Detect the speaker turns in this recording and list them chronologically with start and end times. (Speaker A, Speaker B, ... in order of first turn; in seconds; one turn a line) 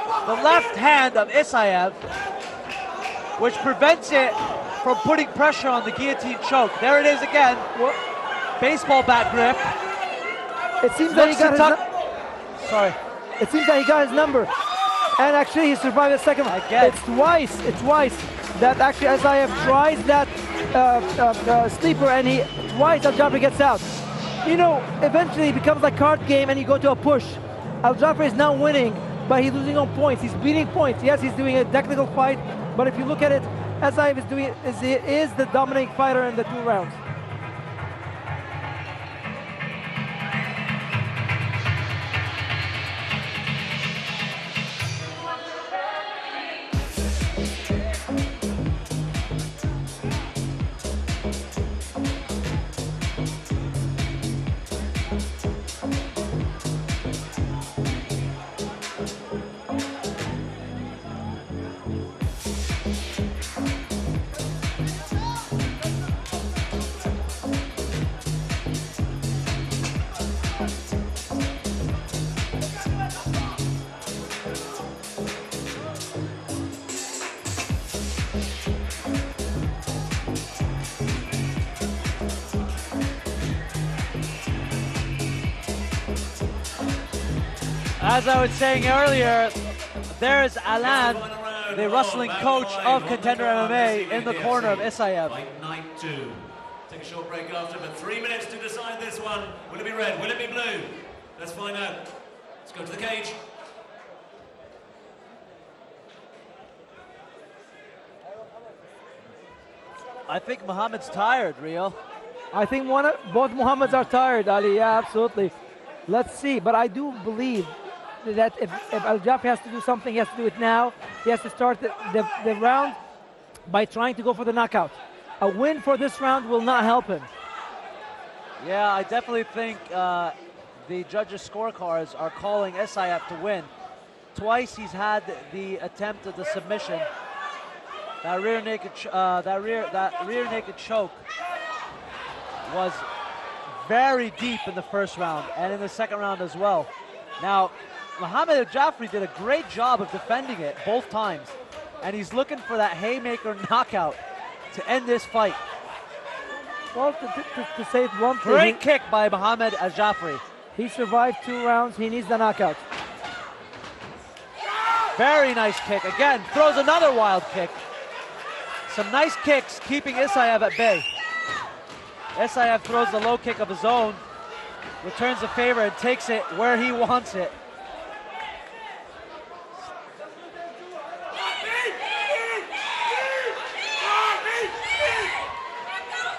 Speaker A: 0.2-2.0
Speaker A: 3.4-7.7
Speaker B: 7.7-8.0
Speaker A: 8.6-9.7
Speaker B: 10.8-11.8
Speaker A: 11.1-11.8
Speaker A: 12.6-13.0
Speaker B: 13.4-14.5
Speaker B: 15.2-23.9
Speaker A: 16.5-17.0
Speaker B: 24.4-37.0
Speaker A: 88.0-89.6
Speaker A: 90.1-95.4
Speaker C: 90.8-102.1
Speaker C: 102.6-103.4
Speaker A: 110.3-112.0
Speaker B: 112.5-115.5
Speaker B: 116.1-123.0
Speaker B: 123.7-127.3
Speaker A: 128.6-133.7
Speaker A: 134.3-137.1
Speaker A: 138.2-141.2
Speaker A: 142.6-143.1
Speaker A: 143.8-154.2
Speaker A: 154.7-155.6
Speaker B: 156.9-158.8
Speaker A: 158.4-160.4
Speaker B: 160.8-162.8
Speaker A: 165.1-167.8
Speaker A: 168.9-171.1
Speaker A: 172.3-174.2
Speaker A: 175.0-177.5